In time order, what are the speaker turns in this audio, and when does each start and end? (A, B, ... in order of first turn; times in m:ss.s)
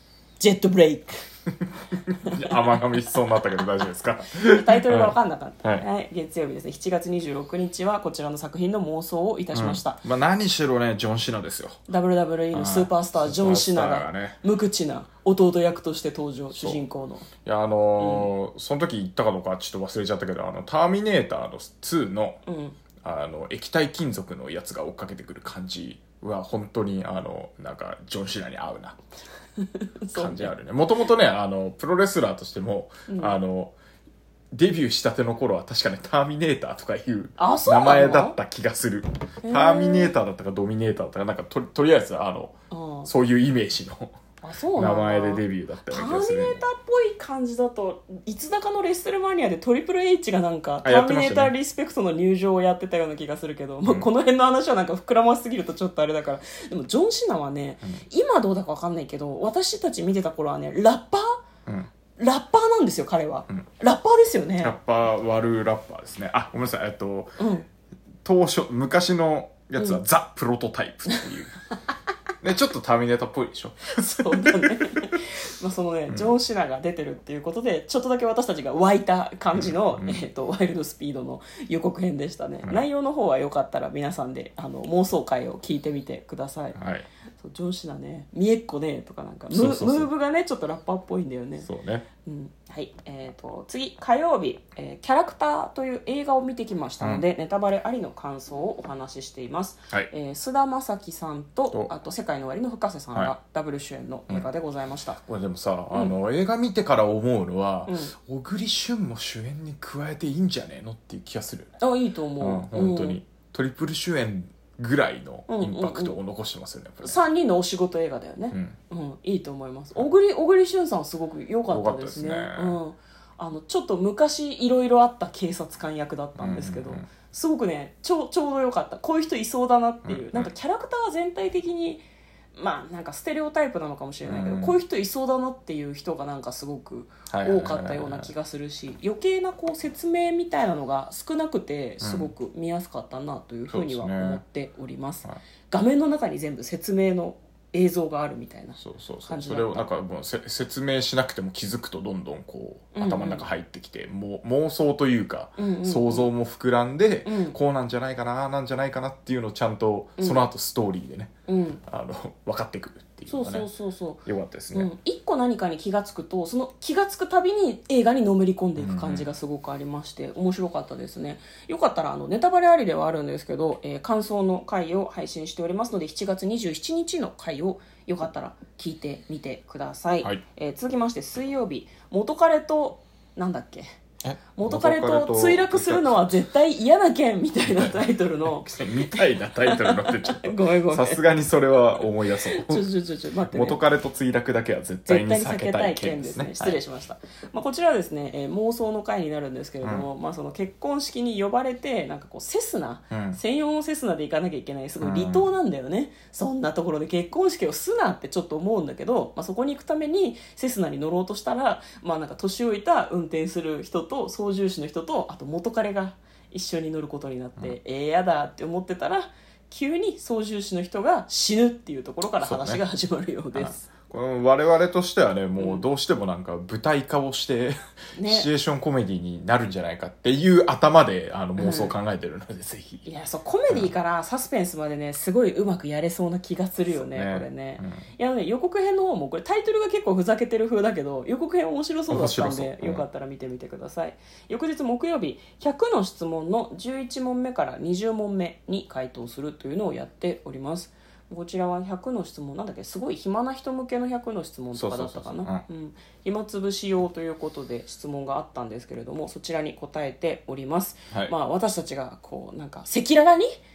0:00.4-0:01.2 A
0:01.9-0:05.8 B
0:02.3-0:03.0 A
0:04.3-0:10.0 A
0:09.5-0:11.8 B
0:11.9-0:17.3 A
0:12.5-0:14.4 B
0:16.5-0:16.8 B
0:17.4-0:22.4 B
0:18.0-0:18.3 A
0:22.4-0:22.8 A
0:23.0-0:29.0 B
0:29.6-0:30.5 A
0:30.1-0:33.7 B
0:33.1-0:33.4 A
0:34.5-0:44.2 B
0:37.4-0:38.4 A
0:39.4-0:40.1 A
0:42.7-0:43.1 A
0:44.4-1:01.4 A
0:44.7-0:46.6 B
0:50.8-0:51.5 B
1:02.2-1:04.8 A
1:04.6-1:07.3 B
1:07.4-1:07.7 A
1:08.2-1:11.6 B
1:12.4-1:15.2 B
1:13.9-1:26.8 A
1:16.1-1:16.3 B
1:19.5-1:20.2 B
1:26.8-1:27.1 B
1:27.4-1:31.7 A
1:29.5-1:30.1 B
1:31.6-1:32.1 B
1:32.2-1:45.2 A
1:45.2-1:51.8 B
1:47.9-1:48.1 A
1:51.8-1:53.2 A
1:52.4-1:57.2 B
1:55.5-1:56.2 A
1:57.0-2:29.9 A
2:01.7-2:02.8 B
2:06.4-2:07.1 B
2:10.0-2:10.5 B
2:14.2-2:14.8 B
2:17.3-2:18.3 B
2:22.0-2:22.3 B
2:23.7-2:24.4 B
2:28.8-2:41.3 B
2:32.9-2:33.5 A
2:35.6-2:36.3 A
2:37.2-2:37.6 A
2:40.2-2:40.5 A
2:41.5-2:41.8 A
2:41.9-2:43.7 B
2:43.3-3:03.9 A
2:44.2-2:44.9 B
2:48.8-2:49.3 B
3:04.2-3:06.4 B
3:04.6-3:11.2 A
3:08.6-3:12.9 B
3:12.0-3:13.8 A
3:13.5-3:16.8 B
3:15.1-3:43.9 A
3:19.8-3:20.1 B
3:23.1-3:23.4 B
3:25.0-3:25.5 B
3:42.4-3:42.8 B
3:43.6-3:53.0 B
3:45.6-3:45.9 A
3:48.2-3:48.5 A
3:51.6-3:52.0 A
3:53.0-4:23.5 A
3:56.9-3:58.0 B
4:02.1-4:03.1 B
4:14.8-4:15.6 B